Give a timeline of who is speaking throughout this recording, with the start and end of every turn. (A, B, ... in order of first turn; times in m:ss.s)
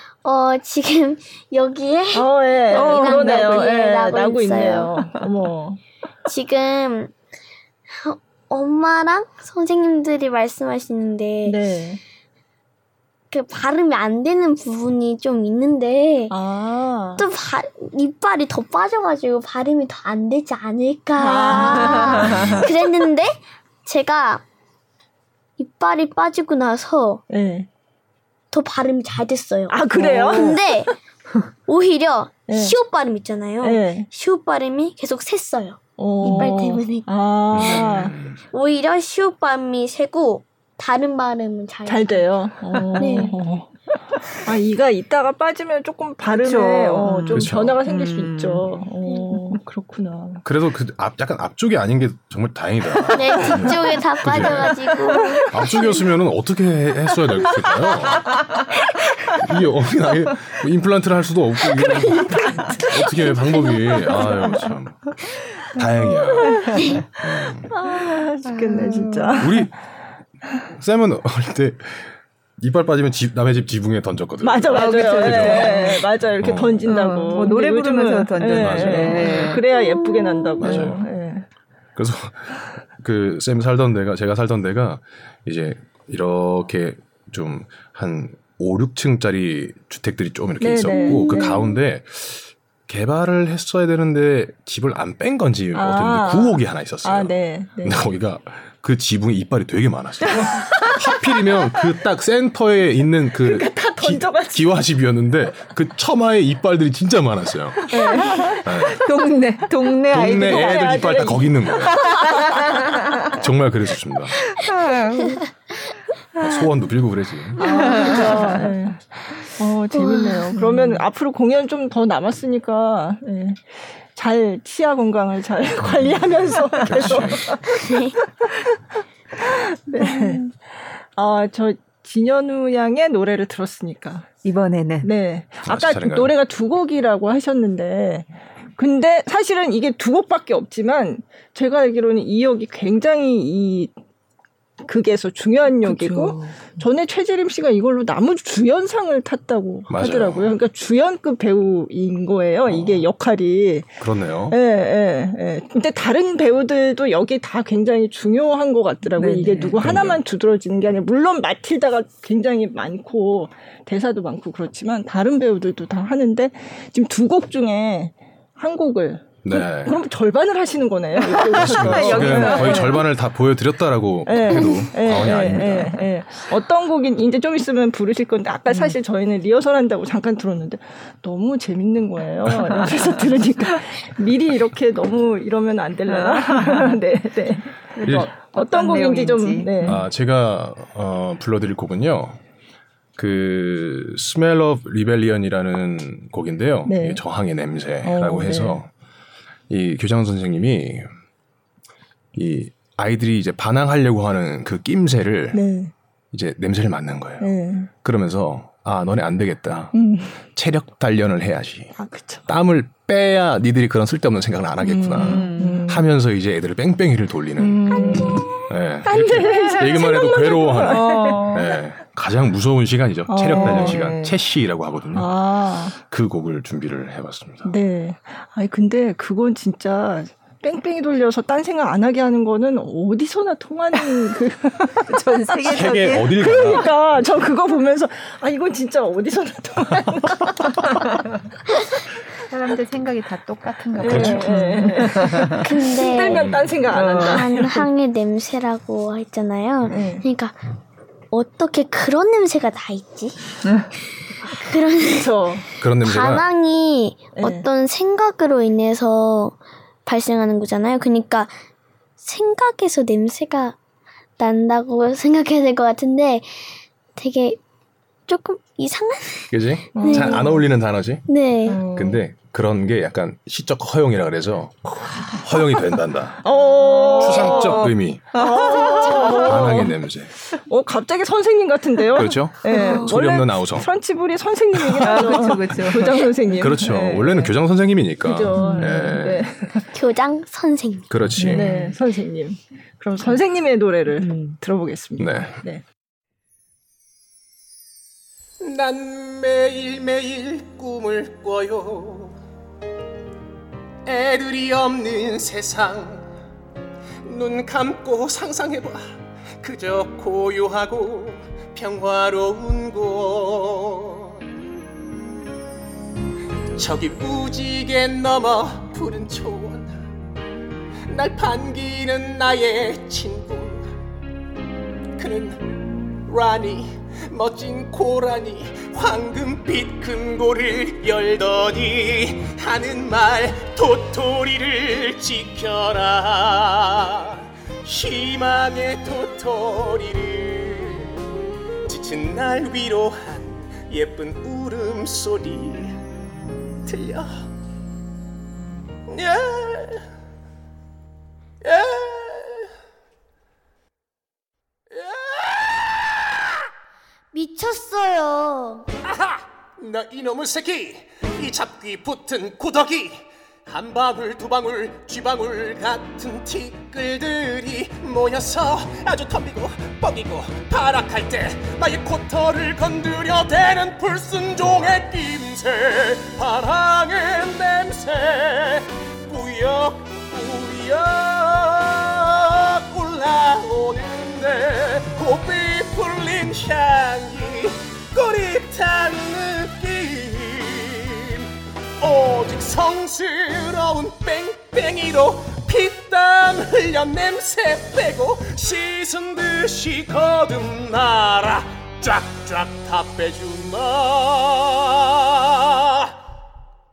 0:00.2-0:04.9 A
0:02.1-0:05.8 B
0:02.7-0:03.6 C
0:06.2-0:07.1 A
0:07.9-0:11.6 A
0:11.5-0:12.0 B
0:13.3-0:16.4 A
0:16.3-0:17.2 B
0:17.2-0:24.4 A
0:21.2-0:22.6 B
0:21.9-0:22.6 C
0:25.6-0:27.2 A
0:27.3-0:27.7 B
0:28.5-0:30.9 A
0:29.7-0:30.9 B
0:30.1-0:30.4 C
0:31.7-0:37.1 A
0:32.5-0:32.8 B
0:33.6-0:34.1 B
0:36.0-0:38.2 B
0:36.2-0:36.5 C
0:37.5-0:38.4 D
0:38.5-0:42.3 A
0:41.9-0:50.4 B
0:42.8-0:43.3 C
0:43.0-0:43.4 A
0:46.3-0:48.7 C
0:47.3-0:47.8 D
0:50.4-0:54.8 D
0:53.1-0:55.5 A
0:54.3-0:54.6 B
0:55.2-0:55.8 B
0:55.5-0:58.7 D
0:59.3-1:07.7 D
1:01.6-1:04.3 B
1:06.5-1:07.0 C
1:07.7-1:09.7 B
1:08.5-1:09.5 C
1:09.4-1:09.7 D
1:10.7-1:17.0 D
1:14.4-1:21.5 B
1:14.7-1:16.1 C
1:16.8-1:19.6 C
1:18.4-1:19.5 D
1:19.7-1:20.6 A
1:20.6-1:21.1 D
1:22.0-1:48.0 D
1:30.6-1:31.6 B
1:30.9-1:31.6 A
1:35.7-1:38.0 B
1:40.3-1:40.9 B
1:43.4-1:44.8 B
1:47.9-1:48.9 B
1:48.5-1:51.4 C
1:48.6-1:49.0 D
1:50.1-1:52.3 D
1:50.1-1:52.2 B
1:52.0-1:53.4 C
1:53.3-1:54.4 D
1:54.6-1:55.5 C
1:56.4-1:58.0 D
1:57.6-2:07.7 B
1:57.8-1:58.6 C
2:00.0-2:00.4 A
2:00.6-2:01.0 C
2:05.8-2:07.6 D
2:07.7-2:08.2 A
2:09.4-2:14.3 B
2:10.0-2:10.4 C
2:14.4-2:15.1 C
2:15.0-2:23.9 B
2:15.7-2:16.3 D
2:24.8-2:53.0 B
2:25.8-2:26.8 C
2:29.9-2:30.6 D
2:32.7-2:33.1 D
2:34.0-2:34.6 D
2:39.1-2:39.9 C
2:39.8-2:40.2 D
2:49.4-2:50.0 D
2:51.2-2:53.0 C
2:51.5-2:56.1 D
2:54.3-3:10.0 B
2:58.7-2:59.0 C
3:06.1-3:06.9 C
3:07.8-3:10.0 C
3:08.0-3:08.3 D
3:09.8-3:12.4 D
3:13.2-3:18.9 D
3:16.9-3:17.2 B
3:18.0-3:18.8 B
3:19.7-3:21.1 D
3:22.3-3:25.6 D
3:25.5-3:25.9 B
3:26.3-3:45.3 D
3:27.4-3:27.9 B
3:29.9-3:30.4 B
3:32.0-3:32.5 B
3:34.8-3:36.1 B
3:35.2-3:35.8 C
3:37.6-3:41.5 B
3:38.0-3:38.4 C
3:39.7-3:41.7 C
3:43.3-3:44.4 B
3:43.5-3:44.1 C
3:45.1-3:46.0 B
3:46.0-3:47.8 D
3:47.6-4:01.0 B
3:55.1-3:56.7 C
3:55.6-3:57.5 D
4:02.5-4:05.7 C
4:04.0-4:07.9 B
4:04.0-4:05.0 D
4:05.6-4:10.6 A
4:06.3-4:06.8 D
4:06.9-4:07.4 C
4:09.9-4:10.2 B
4:11.3-4:13.6 A
4:14.4-4:15.3 A
4:15.0-4:15.7 B
4:15.8-4:16.4 D
4:16.0-4:21.6 A
4:17.4-4:17.6 B
4:22.2-4:23.8 A
4:24.4-4:27.6 A
4:28.3-4:30.5 A
4:29.5-4:31.3 D
4:29.9-4:30.6 B
4:31.3-4:31.8 A
4:31.7-4:32.2 B
4:31.9-4:36.5 D
4:35.0-4:35.6 B
4:36.4-4:39.9 B
4:36.8-4:39.8 C
4:37.2-4:38.4 D
4:39.2-4:40.3 D
4:40.5-4:47.5 B
4:42.2-4:43.9 D
4:42.7-4:43.1 A
4:44.8-4:45.2 D
4:45.0-4:46.3 C
4:46.5-4:49.4 D
4:48.2-4:49.9 B
4:48.6-4:49.2 C
4:49.9-4:51.1 A
4:51.1-4:51.8 D
4:51.4-4:52.0 C
4:51.4-4:55.8 B
4:55.2-4:55.6 D
4:58.6-5:02.4 E
5:04.1-5:06.3 E
5:07.2-5:09.0 E
5:09.6-5:14.4 E
5:16.7-5:20.0 E
5:21.1-5:23.9 E
5:25.2-5:41.1 E
5:41.8-5:46.0 E
5:46.8-5:47.4 E
5:49.1-5:50.0 E
5:51.6-5:52.7 E
5:54.9-5:56.3 E
5:57.3-5:58.9 A
5:59.1-6:31.4 E
6:32.0-6:45.5 E